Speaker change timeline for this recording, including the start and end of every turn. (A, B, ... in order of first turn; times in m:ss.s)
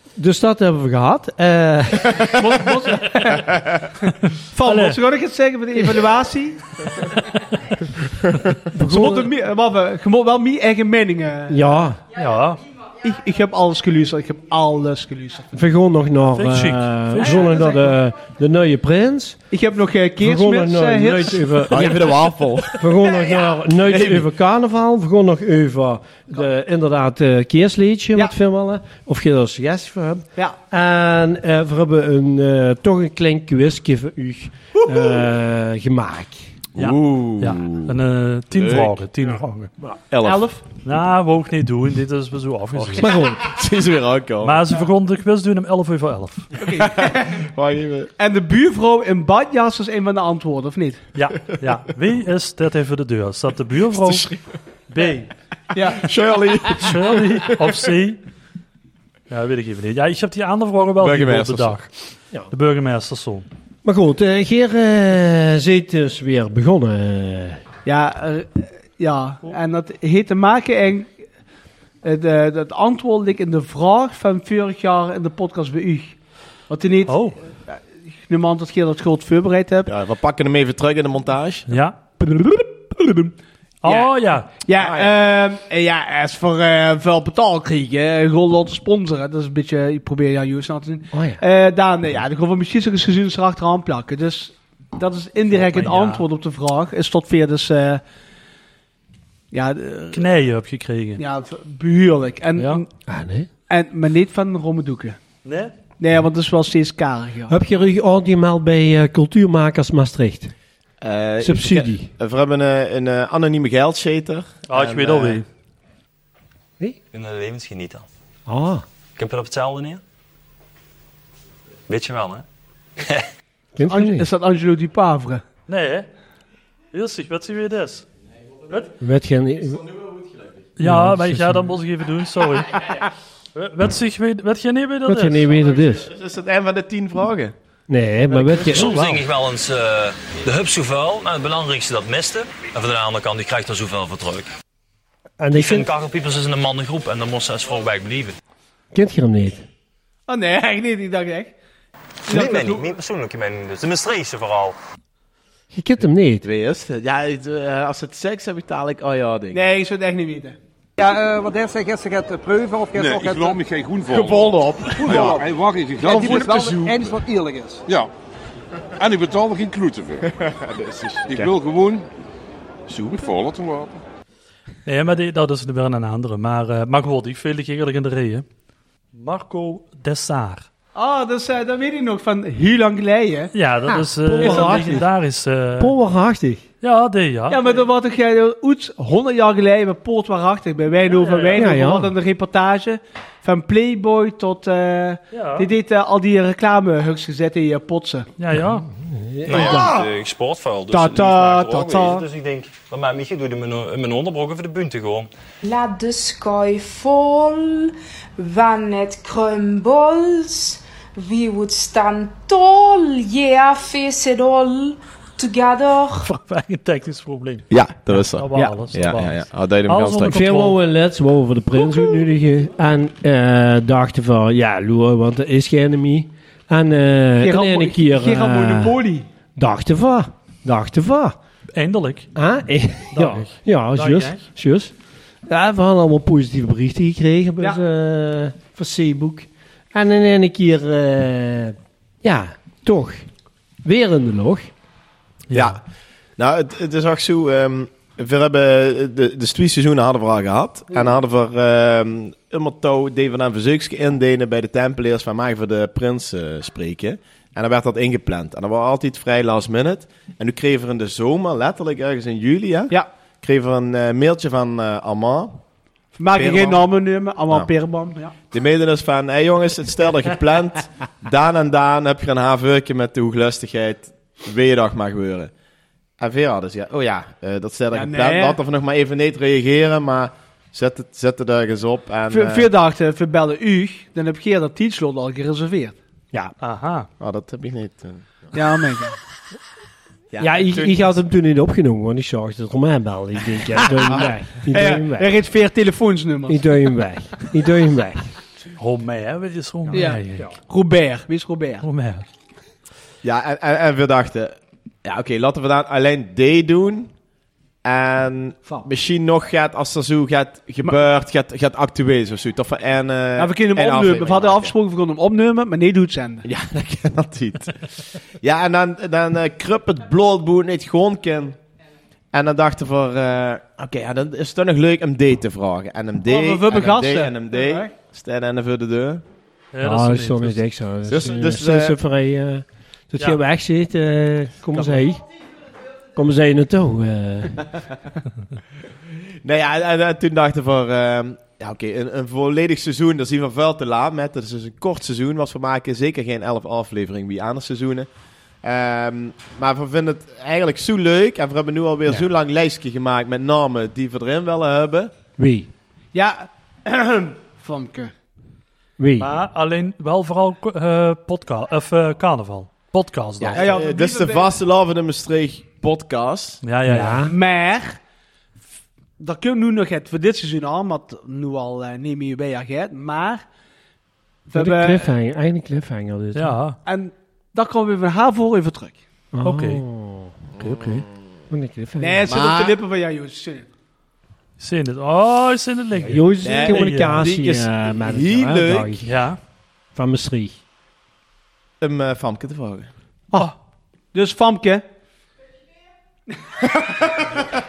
0:00.2-0:02.7 A
0:02.3-0:03.6 B
0:04.5-0:06.6 B
0:04.6-0:05.0 C
0:08.7-0:09.3 A
0:08.8-0:11.7 B
0:11.5-0:12.0 A
0:12.1-0:12.6 C
0:13.0-0:15.5 B
0:15.5-0:19.4 A
0:16.3-0:17.9 C
0:17.4-0:17.9 B
0:19.5-0:21.7 B
0:20.2-0:36.5 A
0:21.7-0:23.0 D
0:23.8-0:24.3 D
0:34.9-0:35.2 B
0:36.8-0:38.0 D
0:36.8-0:39.7 C
0:38.5-0:38.9 D
0:40.1-0:40.4 D
0:40.2-0:40.6 B
0:40.8-0:43.1 C
0:42.8-0:44.8 D
0:42.9-0:43.5 A
0:44.4-0:46.5 C
0:46.6-0:47.4 B
0:46.6-0:48.1 D
0:48.2-0:51.0 B
0:51.1-0:54.3 C
0:54.0-0:54.5 D
0:54.9-0:55.3 C
0:55.7-0:56.1 B
0:55.8-0:57.7 D
0:56.8-0:58.2 C
0:59.3-1:01.9 C
1:01.0-1:01.8 D
1:02.5-1:03.5 C
1:03.8-1:07.6 A
1:07.8-1:11.2 B
1:12.0-1:16.2 B
1:16.7-1:19.9 B
1:17.1-1:17.4 C
1:19.9-1:21.7 D
1:21.7-1:22.0 C
1:22.2-1:24.1 B
1:23.8-1:24.5 C
1:24.6-1:38.0 B
1:24.7-1:25.2 D
1:31.1-1:31.4 A
1:35.5-1:36.2 C
1:39.5-1:40.2 B
1:40.1-1:41.2 C
1:41.2-1:42.9 B
1:42.6-1:42.8 C
1:43.1-1:43.5 A
1:43.7-1:45.2 B
1:45.4-1:45.7 C
1:46.0-1:47.6 B
1:47.5-1:50.5 A
1:51.0-1:55.4 D
1:51.4-1:52.1 A
1:54.7-1:55.4 C
1:57.1-1:58.0 E
1:58.5-1:58.8 A
1:59.2-2:00.0 E
2:01.9-2:02.4 E
2:03.0-2:03.2 E
2:03.8-2:04.3 A
2:03.9-2:05.4 B
2:05.7-2:06.1 C
2:06.9-2:08.0 C
2:09.0-2:09.8 A
2:09.9-2:10.6 D
2:10.8-2:12.8 C
2:10.8-2:11.7 A
2:13.5-2:15.4 C
2:15.0-2:16.1 A
2:15.6-2:17.5 D
2:17.9-2:19.0 A
2:18.3-2:18.6 D
2:18.6-2:24.5 E
2:18.7-2:19.2 C
2:25.4-2:25.9 A
2:25.5-2:28.4 E
2:28.9-2:29.6 A
2:30.3-2:31.5 B
2:32.2-2:33.0 B
2:32.3-2:34.8 E
2:35.7-2:36.4 A
2:36.4-2:39.6 D
2:39.5-2:40.6 B
2:41.0-2:43.6 F
2:42.9-2:46.7 G
2:44.1-2:45.4 D
2:46.0-2:47.2 D
2:46.0-2:47.8 F
2:49.0-2:50.2 G
2:50.2-2:51.5 D
2:51.2-2:52.0 G
2:52.9-2:54.0 G
2:54.8-2:58.4 C
2:59.1-3:00.7 C
3:00.9-3:03.5 B
3:03.5-3:05.9 C
3:03.9-3:05.1 A
3:04.3-3:05.0 B
3:05.8-3:06.6 A
3:06.8-3:07.6 C
3:07.5-3:18.3 B
3:11.1-3:11.6 C
3:11.6-3:12.2 A
3:15.3-3:15.7 C
3:18.4-3:18.9 C
3:19.0-3:20.0 A
3:19.4-3:25.3 E
3:19.5-3:20.1 B
3:20.9-3:22.2 B
3:25.6-3:36.3 H
3:36.2-3:40.8 C
3:37.7-3:40.4 D
3:40.2-3:49.0 A
3:47.4-3:49.2 B
3:49.6-3:51.4 A
3:51.7-3:52.3 C
3:52.3-3:54.9 A
3:53.1-3:54.4 C
3:55.4-4:03.2 A
4:03.8-4:04.7 A
4:05.5-4:05.8 C
4:05.5-4:05.8 D
4:06.4-4:25.6 D
4:26.2-4:28.3 B
4:26.3-4:26.8 D
4:28.5-4:35.5 D
4:36.2-4:42.7 D
4:37.9-4:38.6 B
4:42.3-4:46.0 B
4:46.6-4:47.1 C
4:47.2-4:48.4 D
4:48.5-4:49.2 B
4:50.3-4:51.2 D
4:50.4-4:55.3 A
4:54.7-4:56.7 B
4:56.5-4:58.4 A
4:58.8-5:00.5 C
4:59.9-5:00.5 A
4:59.9-5:01.8 B
5:01.8-5:02.2 C
5:03.2-5:07.1 D
5:07.8-5:14.7 D
5:13.4-5:16.4 B
5:16.4-5:17.8 D
5:18.4-5:21.6 D
5:22.3-5:29.2 D
5:26.2-5:27.9 B
5:29.7-5:30.6 C
5:29.8-5:35.2 A
5:31.1-5:32.0 D
5:36.1-5:37.6 A
5:39.4-5:48.1 D
5:48.6-5:55.1 D
5:55.4-5:55.7 A
5:56.1-5:58.1 B
5:59.0-5:59.3 A
5:59.2-6:03.6 C
6:03.4-6:06.6 D
6:03.6-6:04.5 B
6:06.6-6:07.2 C
6:06.8-6:07.3 A
6:07.2-6:08.0 B
6:09.2-6:13.4 B
6:14.5-6:15.1 B
6:14.5-6:16.6 A
6:16.3-6:16.8 C
6:16.8-6:19.0 B
6:19.3-6:22.3 A
6:19.4-6:19.8 C
6:20.6-6:21.0 D
6:22.0-6:23.7 B
6:22.3-6:22.8 D
6:24.6-6:27.2 C
6:26.0-6:29.1 A
6:26.4-6:29.0 D
6:29.0-6:29.4 C
6:29.9-6:30.6 A
6:31.8-6:32.9 D
6:34.1-6:34.8 B
6:36.5-6:37.3 B